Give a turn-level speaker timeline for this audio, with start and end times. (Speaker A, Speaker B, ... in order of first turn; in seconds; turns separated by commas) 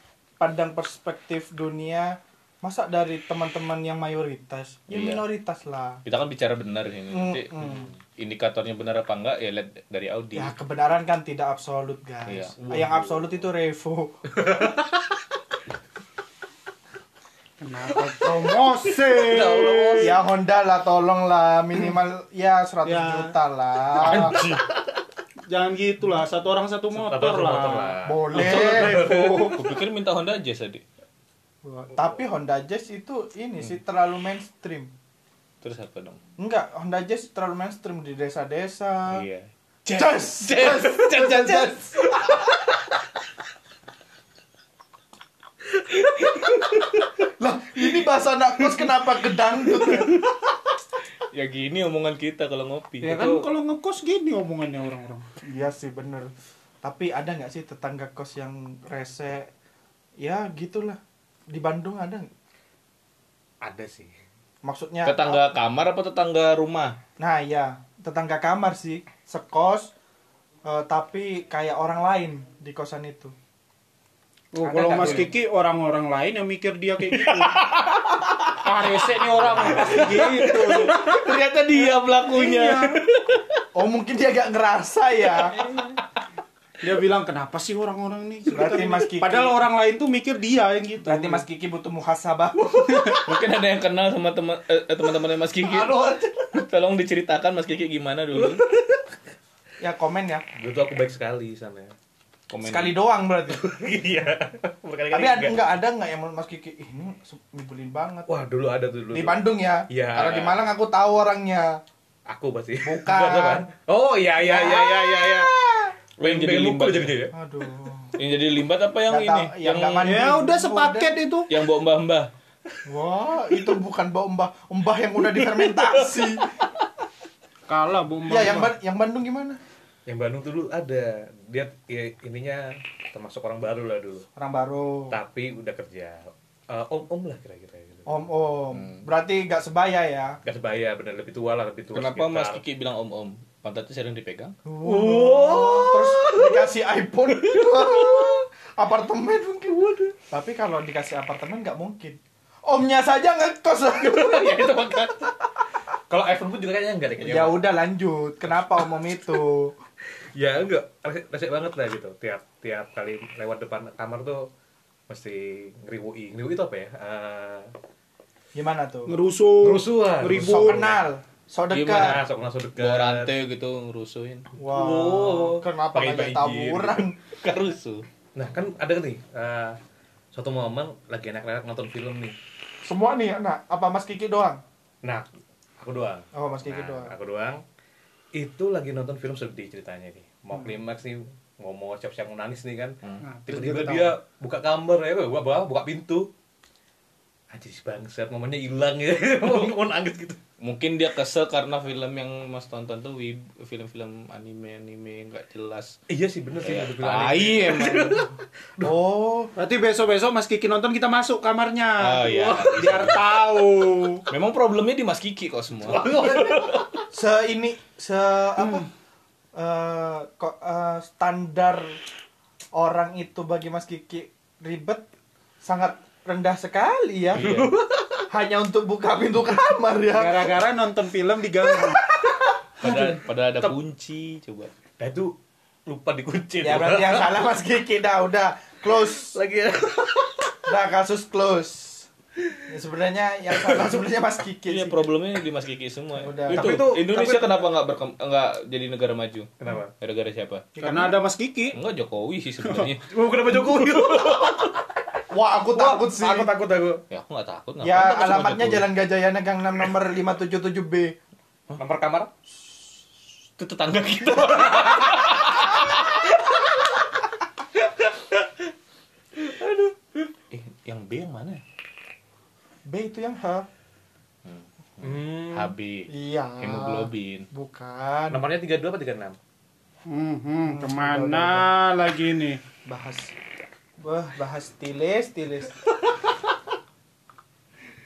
Speaker A: 0.4-6.0, Speaker B: 4.9-5.2, Speaker B: 6.0-10.5, Speaker A: 7.1-7.9, Speaker A: 10.3-14.2, Speaker B: 12.3-12.7, Speaker C: 17.6-20.1, Speaker B: 19.1-20.0, Speaker D: 19.2-19.8, Speaker A: 20.0-24.4, Speaker C: 22.8-23.3, Speaker D: 24.0-24.8, Speaker C: 25.5-29.8, Speaker D: 26.9-29.5, Speaker A: 28.0-29.1, Speaker B: 28.4-30.8, Speaker A: 31.6-34.9, Speaker B: 35.6-36.2, Speaker A: 36.4-39.2, Speaker A: 39.9-42.0, Speaker B: 39.9-41.8, Speaker B: 46.2-46.5, Speaker A: 47.4-50.3, Speaker B: 51.2-53.5, Speaker C: 53.0-55.3, Speaker A: 55.4-56.3, Speaker A: 56.8-59.5, Speaker A: 60.2-61.0, Speaker A: 61.5-62.3, Speaker D: 63.6-64.1, Speaker A: 64.6-65.4, Speaker B: 65.0-67.0, Speaker A: 67.2-69.9, Speaker A: 70.6-73.3, Speaker C: 74.5-77.6, Speaker D: 74.7-75.3, Speaker B: 74.8-75.3, Speaker A: 74.9-75.2, Speaker B: 77.2-78.9, Speaker C: 78.6-81.2, Speaker B: 79.4-83.5, Speaker A: 79.5-80.4, Speaker D: 79.6-80.0, Speaker C: 82.2-83.0, Speaker A: 83.7-85.9, Speaker C: 86.8-91.4, Speaker A: 88.5-89.6, Speaker A: 91.0-93.2, Speaker B: 92.9-95.9, Speaker A: 95.6-96.6, Speaker B: 96.5-98.6, Speaker D: 98.3-99.0, Speaker A: 99.8-100.4, Speaker D: 100.5-101.9, Speaker B: 102.5-103.0, Speaker A: 102.6-103.6, Speaker D: 103.5-105.7, Speaker A: 105.1-108.3, Speaker D: 108.3-110.6, Speaker A: 109.1-111.8, Speaker D: 112.3-115.5, Speaker A: 112.8-113.7, Speaker A: 114.4-115.9, Speaker B: 116.2-117.2, Speaker D: 116.2-117.3, Speaker A: 117.3-118.1, Speaker B: 118.2-120.2, Speaker A: 119.1-121.2, Speaker C: 120.0-121.5, Speaker B: 121.5-122.3, Speaker A: 122.8-126.5, Speaker C: 127.7-128.7, Speaker A: 128.2-129.6, Speaker D: 130.1-134.2, Speaker A: 134.3-135.1, Speaker D: 135.1-138.1, Speaker A: 138.1-140.4, Speaker B: 138.8-139.0, Speaker D: 140.4-142.6, Speaker B: 141.9-145.9, Speaker A: 144.7-154.7, Speaker D: 144.8-146.4, Speaker D: 154.0-155.3, Speaker D: 156.1-157.6, Speaker A: 157.2-159.8, Speaker D: 160.2-164.4, Speaker D: 165.1-167.7, Speaker A: 168.5-169.2, Speaker C: 169.1-170.9, Speaker D: 169.6-170.9, Speaker A: 170.3-172.2, Speaker D: 171.7-173.3, Speaker B: 172.8-174.5, Speaker A: 174.6-177.2, Speaker D: 174.7-177.0, Speaker B: 177.2-178.1, Speaker D: 178.3-179.8, Speaker D: 180.3-182.3, Speaker A: 182.8-184.6, Speaker D: 185.8-187.6, Speaker A: 186.3-187.1, Speaker D: 188.3-196.3, Speaker A: 193.4-194.1, Speaker D: 197.5-200.4, Speaker B: 200.6-206.0, Speaker D: 206.1-208.2, Speaker B: 206.6-208.3, Speaker A: 208.8-209.5, Speaker C: 209.6-214.2, Speaker B: 212.0-213.2, Speaker A: 213.5-213.8, Speaker B: 214.3-216.7, Speaker D: 215.8-217.0, Speaker A: 217.1-218.8, Speaker C: 218.6-218.8, Speaker A: 219.5-222.0, Speaker A: 222.7-225.0, Speaker A: 225.6-227.5, Speaker D: 227.3-228.3, Speaker B: 227.3-227.7, Speaker A: 228.3-230.6, Speaker C: 230.1-232.0, Speaker A: 231.9-232.4, Speaker D: 232.8-233.8, Speaker B: 232.8-234.7, Speaker D: 235.0-235.3, Speaker D: 235.9-237.4, Speaker A: 236.6-239.4, Speaker D: 239.3-240.3, Speaker A: 240.7-242.1, Speaker A: 242.6-245.0, Speaker B: 244.7-250.6, Speaker A: 246.2-246.8, Speaker D: 246.5-247.7, Speaker D: 249.6-249.9, Speaker A: 250.8-251.2, Speaker C: 250.8-251.8, Speaker B: 251.7-253.1, Speaker D: 253.1-254.8, Speaker A: 255.3-256.5, Speaker D: 255.7-257.0, Speaker B: 257.1-258.9, Speaker A: 257.8-261.1, Speaker D: 261.7-262.3, Speaker D: 263.6-265.6, Speaker B: 264.2-266.2, Speaker D: 269.4-269.9, Speaker D: 270.5-271.6, Speaker A: 272.9-273.6, Speaker B: 274.4-275.7, Speaker D: 275.0-276.0, Speaker A: 276.1-278.4, Speaker B: 276.6-277.5, Speaker D: 278.3-279.4, Speaker C: 280.1-282.6, Speaker A: 280.6-281.7, Speaker A: 282.9-283.3, Speaker A: 284.0-285.7